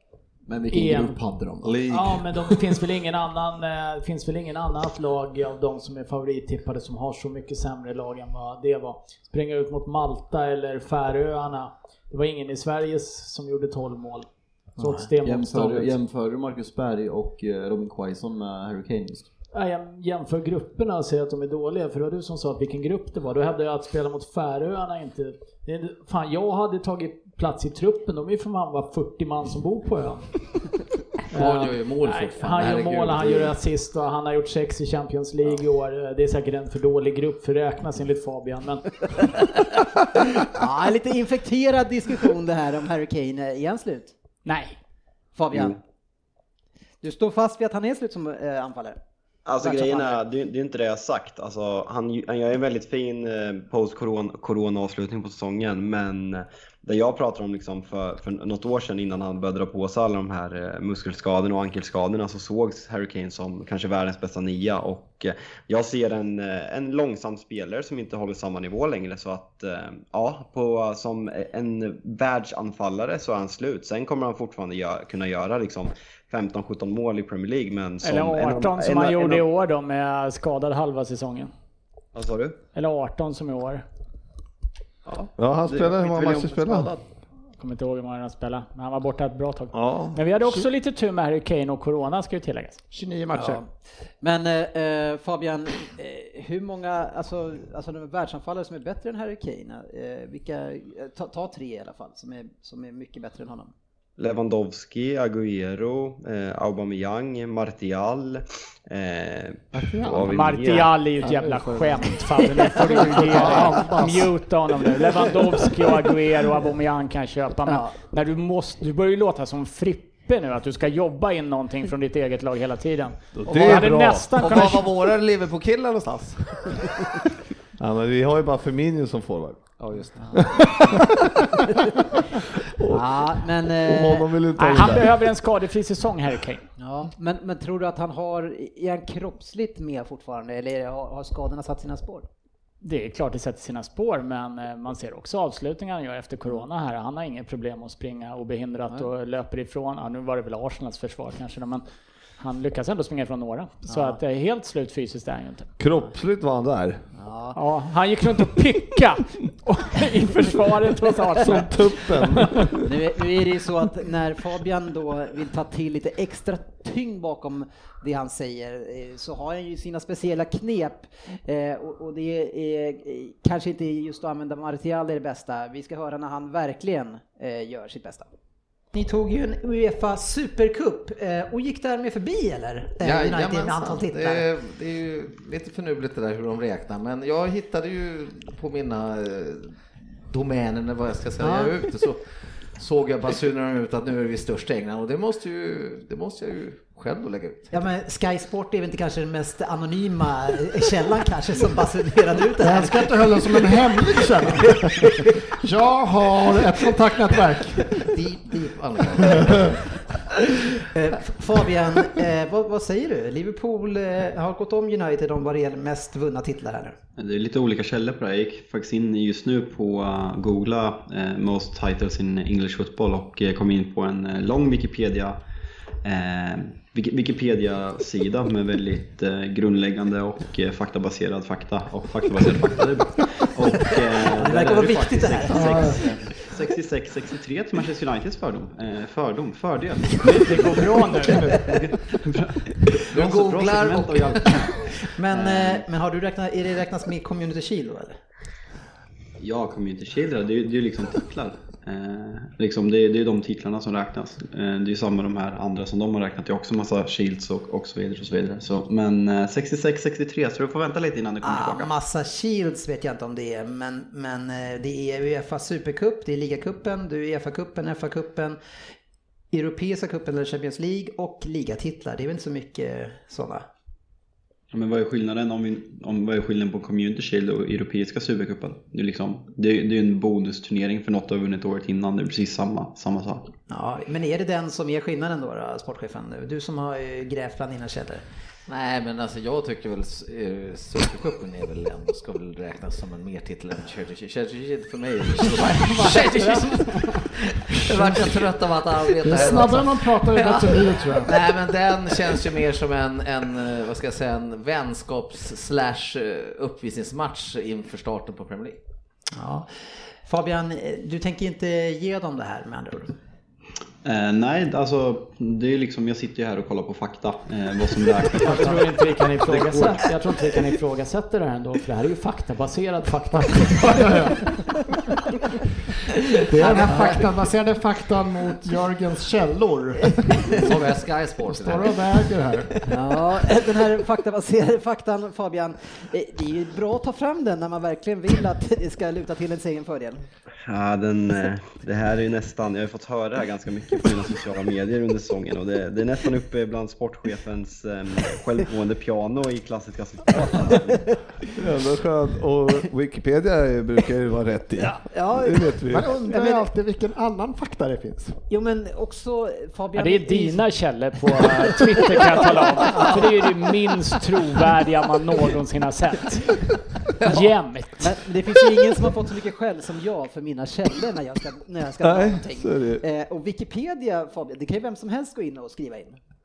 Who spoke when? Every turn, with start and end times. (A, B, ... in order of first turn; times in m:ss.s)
0:00.5-0:01.8 A
0:00.7-0:01.2 B
0:01.6-0:02.2 C
0:01.8-0:15.9 B
0:14.8-0:19.3 A
0:19.5-0:30.4 B
0:31.3-0:39.4 B
0:31.3-0:33.6 D
0:40.5-0:44.1 E
0:44.4-0:44.8 B
0:45.4-0:45.8 E
0:47.0-0:49.0 E
0:49.5-1:19.4 F
0:49.6-0:50.2 E
1:18.0-1:21.5 B
1:22.1-1:22.6 F
1:22.7-1:23.8 B
1:25.1-1:27.0 F
1:25.4-1:26.9 C
1:27.6-1:32.8 B
1:29.7-1:30.2 C
1:32.9-1:33.6 G
1:33.3-1:33.7 E
1:34.2-1:43.7 E
1:44.2-1:51.0 F
1:49.8-1:50.4 G
1:50.2-2:05.0 B
1:51.2-1:52.2 G
1:52.8-1:54.4 G
2:03.3-2:04.4 C
2:04.4-2:06.8 D
2:07.8-2:11.4 C
2:09.8-2:10.4 D
2:12.8-2:15.2 C
2:12.9-2:14.3 E
2:14.6-2:16.7 B
2:16.8-2:22.3 E
2:22.8-2:31.8 B
2:32.4-2:35.7 B
2:33.9-2:34.2 E
2:35.8-2:37.0 C
2:37.2-2:37.6 E
2:37.6-2:42.7 B
2:41.4-2:42.9 C
2:42.8-2:58.3 E
2:58.9-3:04.4 E
3:03.0-3:17.7 D
3:11.4-3:11.8 E
3:17.7-3:23.6 E
3:22.6-3:27.9 G
3:24.5-3:25.1 E
3:28.0-3:29.8 D
3:30.9-3:37.0 E
3:37.2-3:45.4 F
3:46.0-4:04.9 F
3:54.3-3:56.4 E
3:55.6-3:56.1 G
4:00.2-4:01.6 B
4:03.1-4:04.6 D
4:05.0-4:08.2 E
4:05.4-4:05.8 F
4:09.4-4:21.9 F
4:21.4-4:28.6 E
4:29.5-4:33.7 E
4:34.7-4:43.5 F
4:43.7-4:48.2 E
4:48.7-5:08.8 D
4:55.6-4:57.2 B
4:59.2-5:01.4 G
5:09.3-5:13.1 E
5:14.0-5:20.1 F
5:18.4-5:24.4 B
5:23.3-5:24.4 G
5:26.5-5:30.8 G
5:26.6-5:27.2 E
5:26.6-5:27.2 D
5:30.5-5:32.1 D
5:31.4-5:32.7 G
5:32.9-5:40.2 E
5:40.7-5:51.1 F
5:51.6-5:56.1 C
5:54.8-5:56.7 E
5:55.9-5:58.4 G
5:58.5-6:00.6 E
6:00.0-6:08.2 B
6:01.4-6:03.2 E
6:08.0-6:16.2 E
6:12.0-6:13.0 C